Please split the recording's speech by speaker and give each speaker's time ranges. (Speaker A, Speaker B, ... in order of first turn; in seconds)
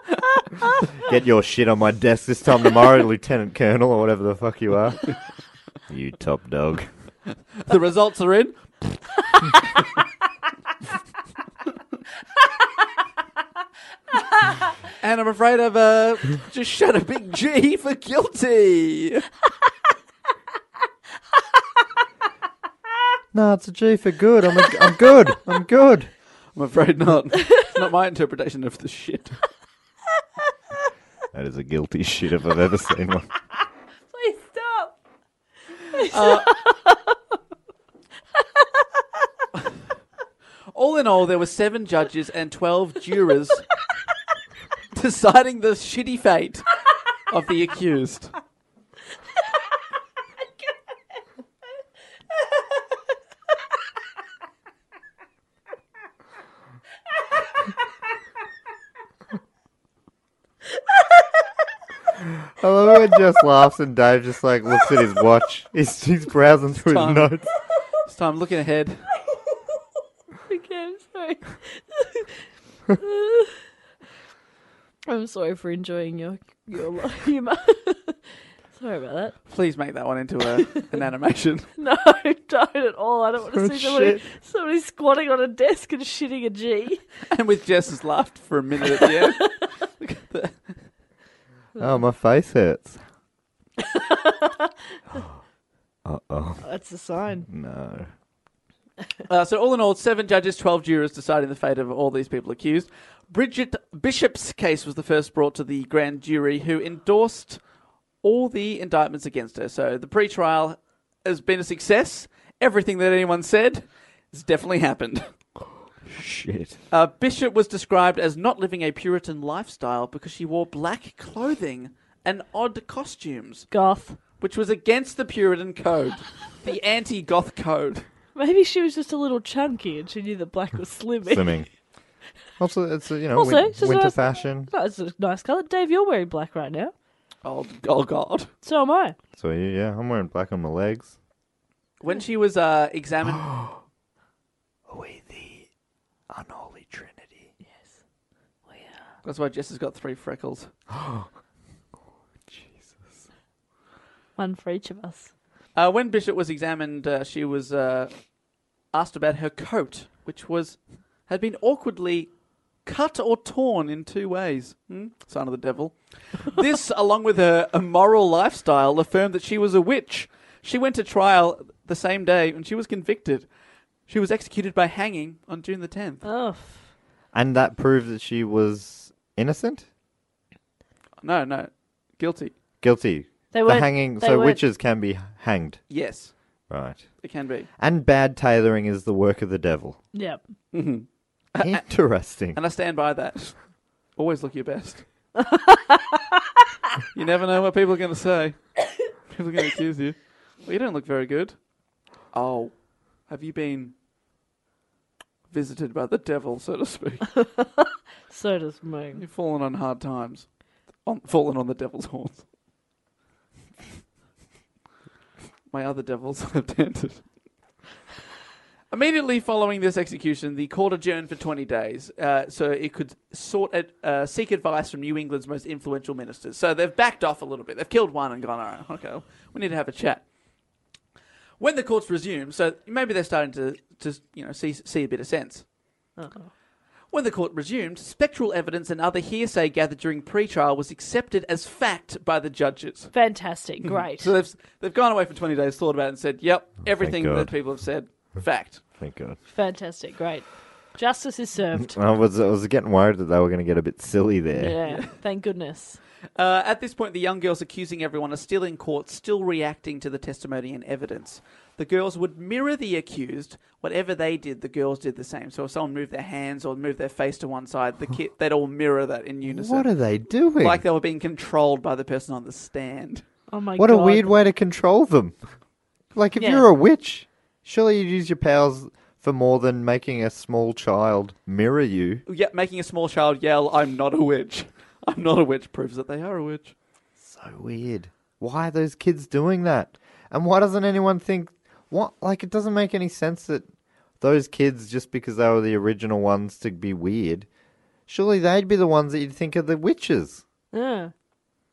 Speaker A: 1.0-5.1, 5.9-6.9, 23.3-26.1, 31.3-33.3, 62.5-67.5, 83.5-84.2, 91.8-93.0, 96.0-96.7, 97.4-98.1, 116.1-116.8, 131.2-131.7, 132.6-134.7, 139.3-141.1, 144.9-145.7, 146.3-147.5, 150.9-151.3, 152.5-153.2, 177.3-179.8, 182.8-185.8, 186.7-187.0, 187.8-190.0, 191.6-192.6, 246.8-247.5, 249.0-249.4, 251.7-254.8, 269.4-270.8, 273.8-275.4, 276.1-282.2, 287.2-293.7, 294.2-297.5, 298.1-300.4
Speaker B: 7.7-9.6, 15.0-19.3, 26.5-29.4, 36.1-36.6, 40.7-43.7, 44.9-46.7, 47.2-48.3, 66.8-67.4, 68.0-69.1, 79.5-81.7, 87.3-90.7, 99.3-107.6, 108.2-115.2, 116.9-123.7, 124.4-128.1, 137.4-138.5, 142.0-143.6, 149.2-150.7, 155.7-158.1, 158.9-162.3, 162.8-173.5, 174.1-176.2, 181.2-182.5, 185.9-186.3, 187.2-187.7, 190.7-191.8, 192.5-193.6, 194.2-195.1, 197.1-201.6, 202.3-203.9, 205.5-207.4, 209.2-210.5, 211.0-212.4, 215.7-217.2, 218.9-230.2, 231.6-235.6, 237.1-243.1, 243.8-248.8, 256.4-269.9, 270.6-273.2, 282.2-286.7
Speaker C: 34.1-34.9, 35.9-37.1, 70.5-73.7, 75.1-79.4, 81.8-87.0, 93.8-95.2, 96.6-97.5, 123.7-124.2, 128.3-131.6, 133.3-136.9, 138.6-139.2, 147.6-147.9, 148.7-149.0, 154.3-155.3, 176.2-176.9, 183.5-184.6, 190.1-190.4, 195.4-196.2, 207.4-209.2, 236.2-236.5, 243.1-244.3, 249.5-251.9, 254.6-256.0, 273.5-274.3, 276.4-276.6, 300.7-301.1